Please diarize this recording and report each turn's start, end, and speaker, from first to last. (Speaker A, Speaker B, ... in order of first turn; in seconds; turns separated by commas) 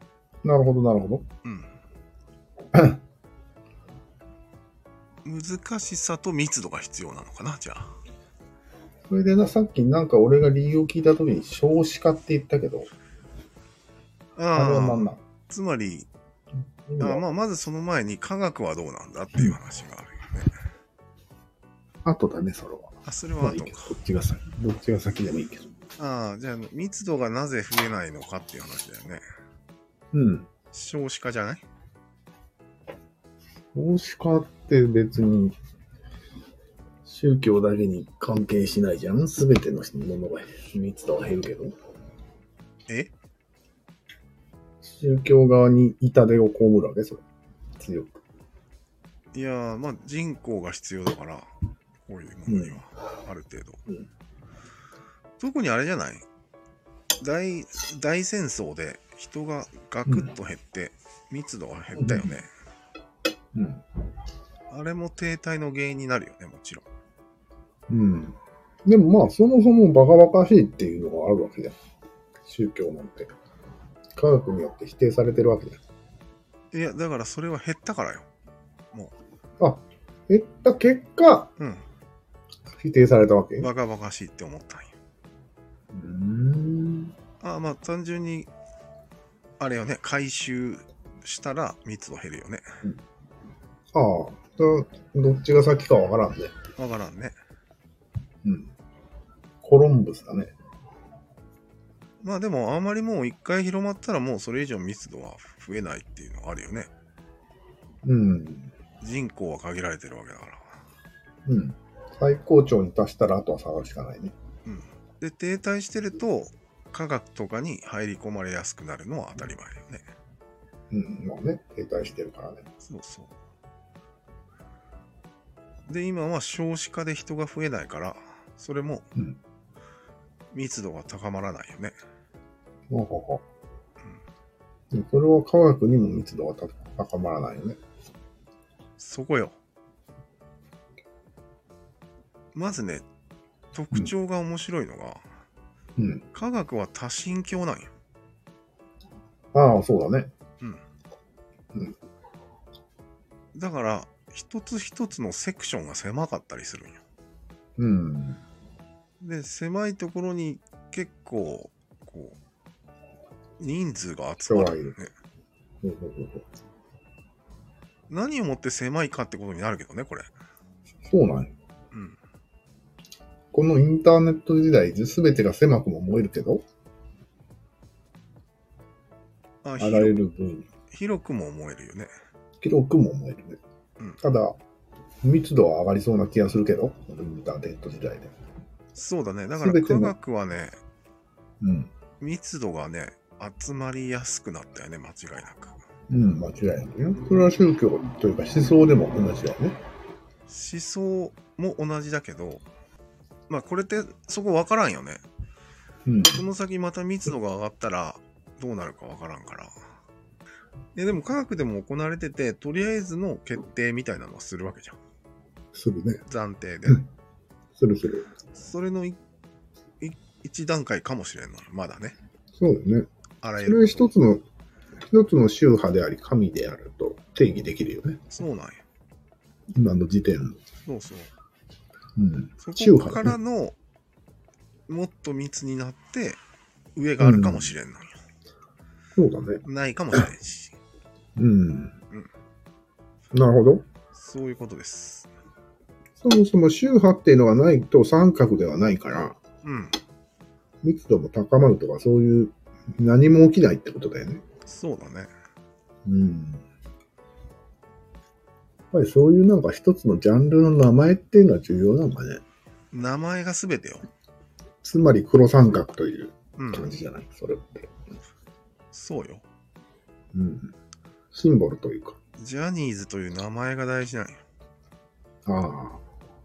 Speaker A: 0.4-1.2, Speaker B: 1.4-1.7, Speaker A: 2.7-3.0, Speaker B: 5.2-7.9, Speaker A: 9.1-12.9, Speaker B: 14.3-16.1, Speaker A: 14.5-15.2, Speaker A: 16.9-17.2, Speaker B: 17.0-20.5, Speaker A: 22.0-25.7, Speaker B: 23.0-23.9, Speaker B: 26.0-29.2, Speaker A: 30.1-30.5, Speaker B: 30.7-31.6, Speaker A: 33.7-35.5, Speaker A: 37.0-41.7, Speaker B: 42.9-43.1, Speaker A: 44.8-47.2, Speaker A: 47.8-48.2, Speaker B: 49.3-51.5, Speaker B: 52.0-53.8, Speaker A: 52.5-52.8, Speaker B: 55.4-56.2, Speaker B: 57.2-62.5, Speaker A: 62.0-62.3, Speaker A: 63.5-63.8, Speaker B: 64.7-66.8, Speaker A: 67.9-71.8, Speaker A: 72.4-73.3, Speaker A: 74.2-75.8, Speaker B: 76.7-78.3, Speaker A: 79.6-81.5, Speaker B: 81.6-81.8, Speaker A: 82.8-83.7, Speaker B: 83.6-84.9, Speaker A: 85.9-87.1, Speaker B: 87.4-88.5, Speaker B: 89.6-92.6, Speaker A: 93.9-96.5, Speaker B: 96.8-97.3, Speaker A: 98.4-98.7, Speaker A: 99.6-100.5, Speaker B: 102.2-106.9, Speaker A: 108.0-108.7, Speaker B: 109.0-110.8, Speaker A: 111.5-114.3, Speaker B: 114.7-120.0, Speaker A: 120.9-122.7, Speaker B: 122.8-123.3, Speaker B: 125.9-129.1, Speaker B: 130.5-131.9, Speaker A: 132.9-133.4, Speaker A: 134.9-137.8, Speaker B: 139.0-139.6, Speaker B: 142.5-143.1, Speaker B: 143.7-145.2, Speaker A: 146.0-146.2, Speaker B: 146.3-147.9, Speaker A: 149.5-150.3, Speaker B: 153.5-157.0, Speaker A: 157.8-158.4, Speaker B: 159.2-162.4, Speaker B: 163.6-165.1, Speaker A: 164.4-165.0, Speaker A: 165.8-166.4, Speaker B: 168.1-170.3, Speaker A: 171.0-171.5, Speaker B: 171.9-172.2, Speaker A: 173.5-176.6, Speaker B: 179.6-180.2, Speaker A: 179.8-180.7, Speaker B: 180.9-182.1, Speaker A: 182.6-183.6, Speaker A: 184.2-184.6, Speaker A: 185.2-188.3, Speaker B: 188.9-190.8, Speaker A: 189.6-190.1, Speaker A: 191.6-191.9, Speaker B: 192.2-195.8, Speaker A: 196.1-199.8, Speaker B: 200.5-202.6, Speaker B: 203.5-205.2, Speaker A: 206.0-206.4, Speaker B: 206.3-209.7, Speaker B: 210.9-215.0, Speaker A: 215.7-216.2, Speaker B: 216.2-217.1, Speaker A: 217.8-218.3, Speaker B: 218.5-219.2, Speaker B: 220.0-222.1, Speaker A: 222.5-223.1, Speaker B: 223.4-224.1, Speaker A: 223.6-224.4, Speaker A: 225.1-228.2, Speaker B: 228.3-228.8, Speaker A: 229.7-230.6, Speaker B: 230.8-231.3, Speaker A: 232.2-233.4, Speaker B: 232.6-233.8, Speaker B: 234.9-236.4, Speaker B: 236.9-238.2, Speaker A: 237.2-237.7, Speaker A: 239.2-240.3, Speaker B: 239.6-240.8, Speaker A: 241.4-241.9, Speaker A: 243.3-243.8, Speaker B: 244.1-245.3, Speaker A: 246.2-249.4, Speaker B: 249.6-249.9, Speaker A: 250.8-254.4, Speaker B: 254.7-255.3, Speaker A: 256.1-256.6, Speaker A: 258.9-262.4, Speaker B: 262.9-264.1, Speaker A: 264.8-267.9, Speaker B: 266.6-266.9, Speaker B: 268.9-269.4, Speaker A: 270.3-270.7, Speaker A: 271.3-272.2, Speaker B: 272.4-274.4, Speaker A: 275.4-276.0